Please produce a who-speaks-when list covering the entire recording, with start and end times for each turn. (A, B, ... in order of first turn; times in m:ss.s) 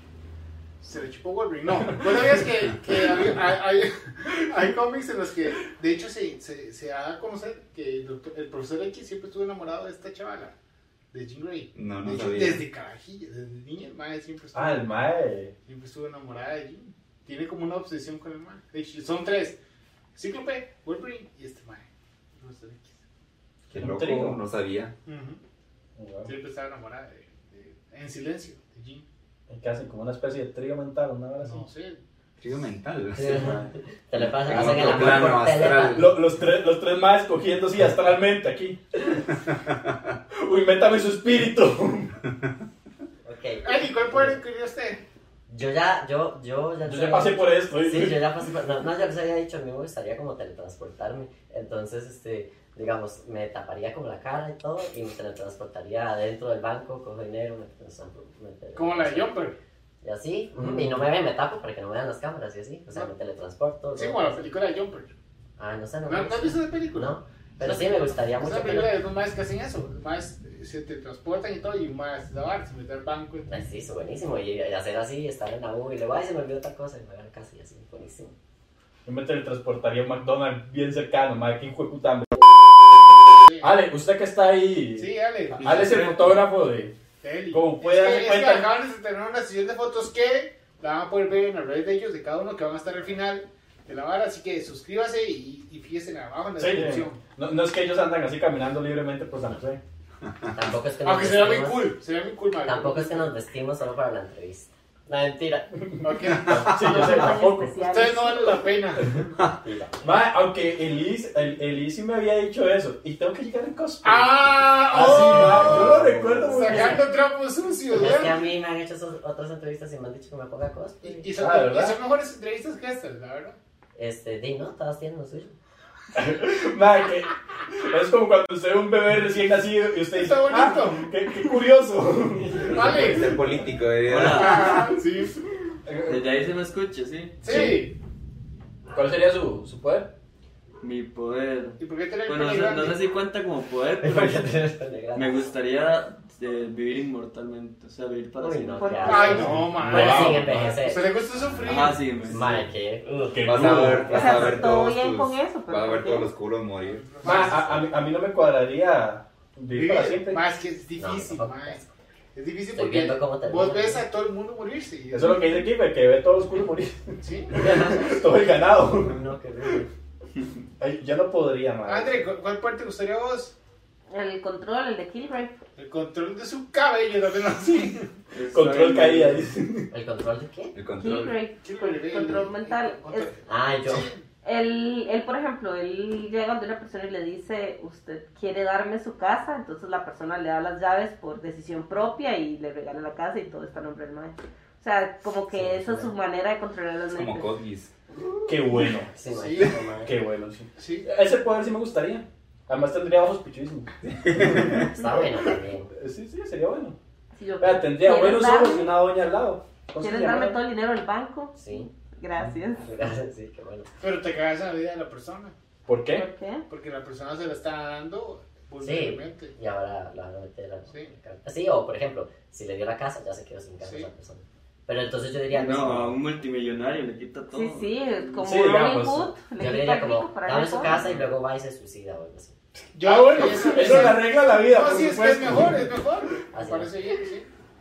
0:00.8-0:10.5 A
0:11.1-0:14.8 A
0:11.8-0:12.6 B
0:14.5-0:15.5 C
0:15.7-0:19.6 A
0:20.2-0:23.0 A
0:23.7-0:25.0 B
0:23.7-0:24.4 C
0:25.1-0:25.4 A
0:26.0-0:26.3 C
0:26.2-0:29.0 A
0:29.5-0:31.7 C
0:31.4-0:32.0 A
0:32.4-0:33.6 B
0:33.1-0:36.1 D
0:33.3-0:33.7 C
0:34.2-0:36.2 B
0:34.5-0:34.9 C
0:35.8-0:39.3 C
0:39.5-0:40.0 B
0:40.3-0:42.1 C
0:43.2-0:44.4 D
0:43.6-0:45.0 A
0:45.5-0:59.4 D
0:46.9-0:48.3 C
0:58.8-0:59.6 A
1:00.0-1:04.5 D
1:00.6-1:01.0 C
1:03.9-1:05.1 A
1:05.6-1:09.0 D
1:06.0-1:13.5 A
1:13.5-1:18.3 D
1:19.1-1:22.4 C
1:23.4-1:23.8 A
1:23.6-1:27.0 C
1:25.0-1:25.8 A
1:25.6-1:26.4 E
1:27.2-1:37.2 A
1:27.5-1:28.7 C
1:36.6-1:39.8 C
1:40.5-1:42.0 D
1:41.0-1:43.3 A
1:42.6-1:45.9 D
1:45.9-1:47.7 C
1:46.0-1:49.3 A
1:46.7-1:48.7 F
1:49.0-1:49.3 C
1:49.6-1:50.0 D
1:50.0-1:57.0 C
1:54.0-1:58.5 A
1:55.0-1:57.0 D
1:57.9-2:01.3 D
2:01.0-2:03.6 A
2:01.4-2:02.0 C
2:04.0-2:05.6 D
2:06.1-2:13.2 C
2:10.1-2:11.2 A
2:12.5-2:14.9 B
2:12.7-2:13.4 A
2:14.0-2:14.9 E
2:14.3-2:15.4 A
2:15.9-2:16.3 C
2:16.0-2:17.5 E
2:17.4-2:18.0 A
2:17.5-2:17.8 C
2:18.9-2:20.1 C
2:20.8-2:24.6 E
2:21.8-2:23.0 A
2:24.0-2:25.5 D
2:25.1-2:29.6 E
2:28.4-2:31.1 D
2:28.8-2:29.6 F
2:29.0-2:32.1 A
2:29.4-2:30.7 C
2:31.6-2:32.6 E
2:31.9-2:32.7 B
2:32.3-2:34.5 D
2:33.1-2:34.2 C
2:33.4-2:37.1 B
2:34.1-2:36.3 F
2:36.8-2:37.8 A
2:37.2-2:40.4 C
2:37.3-2:37.8 D
2:39.7-2:41.8 A
2:41.0-2:41.9 D
2:42.4-2:45.5 A
2:42.7-2:44.1 D
2:45.1-2:49.2 C
2:47.2-2:47.9 A
2:47.5-2:49.9 D
2:50.8-2:52.3 C
2:51.9-2:53.5 A
2:54.1-2:55.5 F
2:55.8-2:58.1 A
2:58.3-2:59.5 E
2:58.5-2:59.9 C
2:59.9-3:00.8 D
3:00.8-3:01.4 B
3:01.0-3:03.3 F
3:01.6-3:04.2 A
3:03.5-3:04.1 D
3:04.4-3:17.5 F
3:15.5-3:16.1 D
3:17.1-3:17.9 B
3:18.5-3:19.1 C
3:19.1-3:20.1 D
3:19.3-3:19.8 A
3:20.0-3:24.9 C
3:20.8-3:21.1 A
3:24.0-3:24.9 B
3:24.5-3:25.9 D
3:25.9-3:27.0 C
3:27.4-3:29.0 F
3:27.6-3:30.6 C
3:30.0-3:32.9 F
3:31.6-3:31.9 D
3:32.8-3:33.9 D
3:34.0-3:35.5 A
3:35.9-3:36.3 C
3:36.1-3:36.6 F
3:36.7-3:39.6 A
3:38.8-3:46.2 D
3:43.8-3:44.1 A
3:45.5-3:48.4 E
3:47.5-3:51.0 F
3:48.4-3:49.3 C
3:49.6-3:52.6 D
3:50.9-3:51.3 E
3:53.0-3:57.5 A
3:53.0-3:55.9 C
3:56.5-3:56.9 D